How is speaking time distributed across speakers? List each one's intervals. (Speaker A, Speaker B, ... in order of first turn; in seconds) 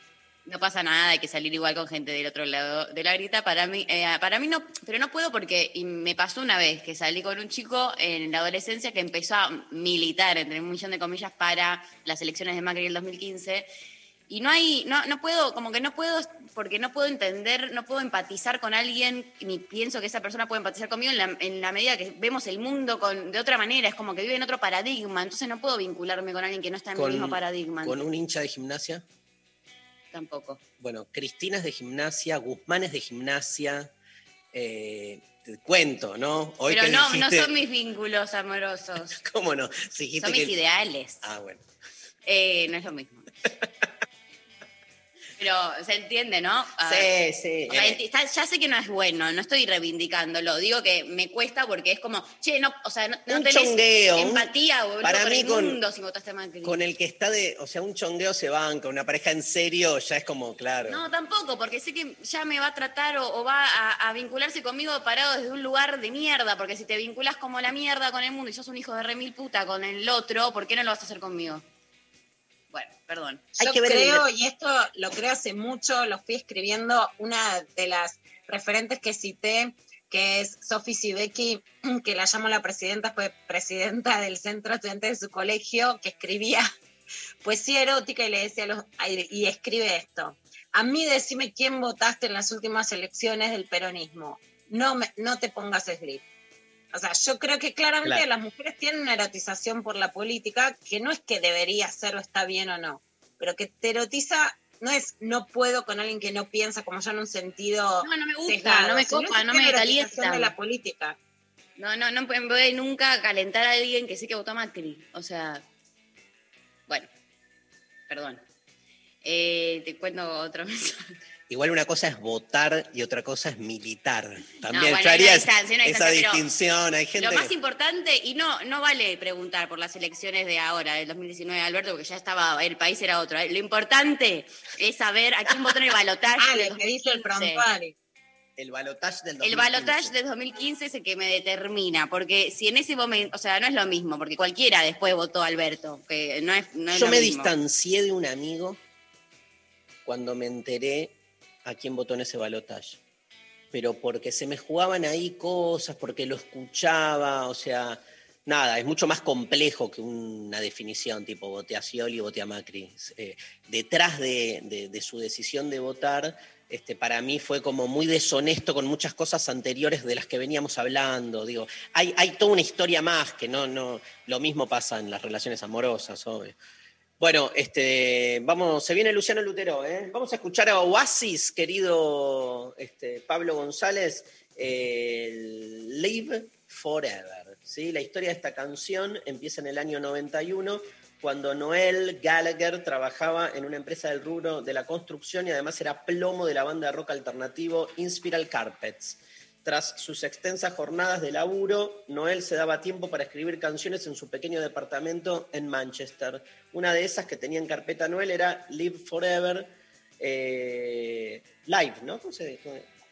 Speaker A: 0.5-13.7, 14.3-28.0, 30.1-30.6, 36.7-39.2, 40.2-41.2, 42.2-43.3, 45.4-47.1, 47.7-56.8, 60.8-71.6, 72.7-73.5, 108.0-110.5, 111.8-115.6, 118.1-118.4, 119.2-121.1, 124.7-126.5, 127.2-137.6, 139.4-147.5
Speaker B: 26.9-29.0, 30.8-33.9, 34.5-37.5, 39.1-40.5, 41.2-41.6, 46.8-48.0, 53.3-54.5, 55.0-55.8, 56.6-61.0, 73.6-74.2, 121.5-127.5, 138.6-140.1, 146.9-148.8, 150.1-153.0, 153.7-176.6, 177.2-212.9
Speaker C: 73.6-86.7, 87.4-96.2, 96.9-111.2, 136.4-137.9